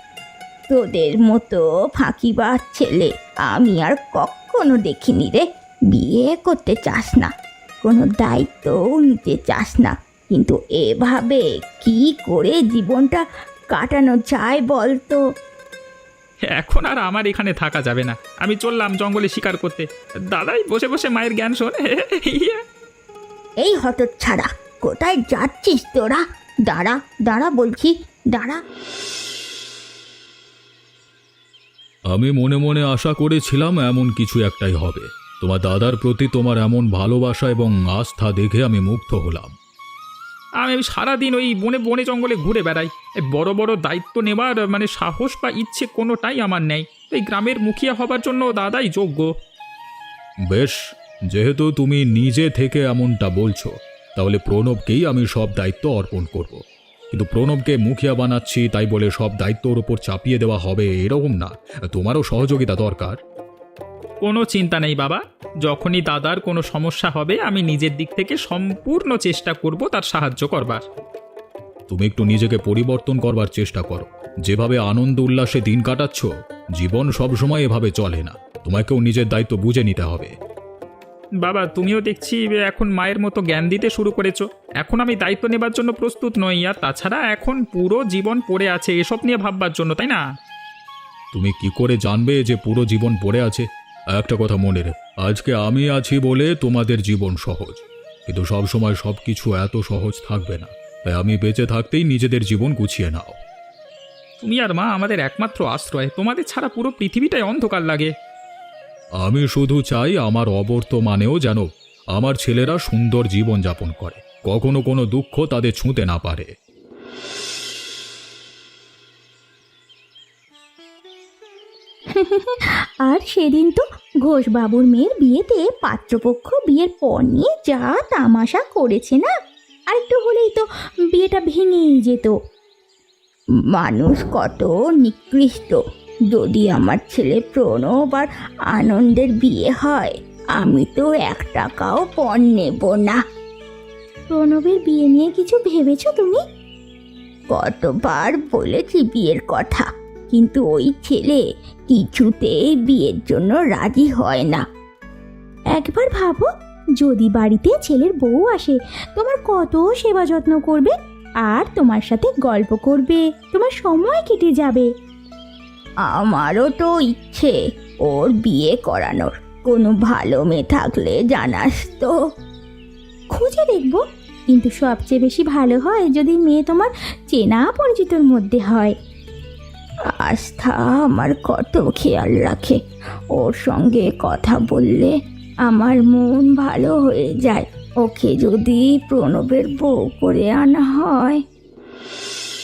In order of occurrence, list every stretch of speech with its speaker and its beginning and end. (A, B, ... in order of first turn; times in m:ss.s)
0:00.7-0:07.3 A
0:07.8-0:13.2 A
0:13.7-0:15.2 A
0:16.6-0:22.6 B
0:23.6-0:28.6 A
0:32.1-0:39.6 C
0:40.6-0:49.3 B
0:50.5-0:50.8 C
0:51.3-1:03.2 C
1:04.2-1:10.8 B
1:11.9-1:20.3 C
1:21.4-1:30.2 B
1:31.3-1:43.4 C
1:44.4-1:48.1 B
1:49.2-1:56.5 C
2:02.1-2:09.3 D
2:09.9-2:12.4 D
2:13.7-2:23.2 A
2:24.3-2:26.4 D
2:27.5-2:34.6 A
2:35.7-2:36.5 D
2:37.0-2:44.9 D
2:46.1-2:52.2 A
2:53.3-2:59.0 D
3:00.1-3:02.8 A
3:03.4-3:11.4 A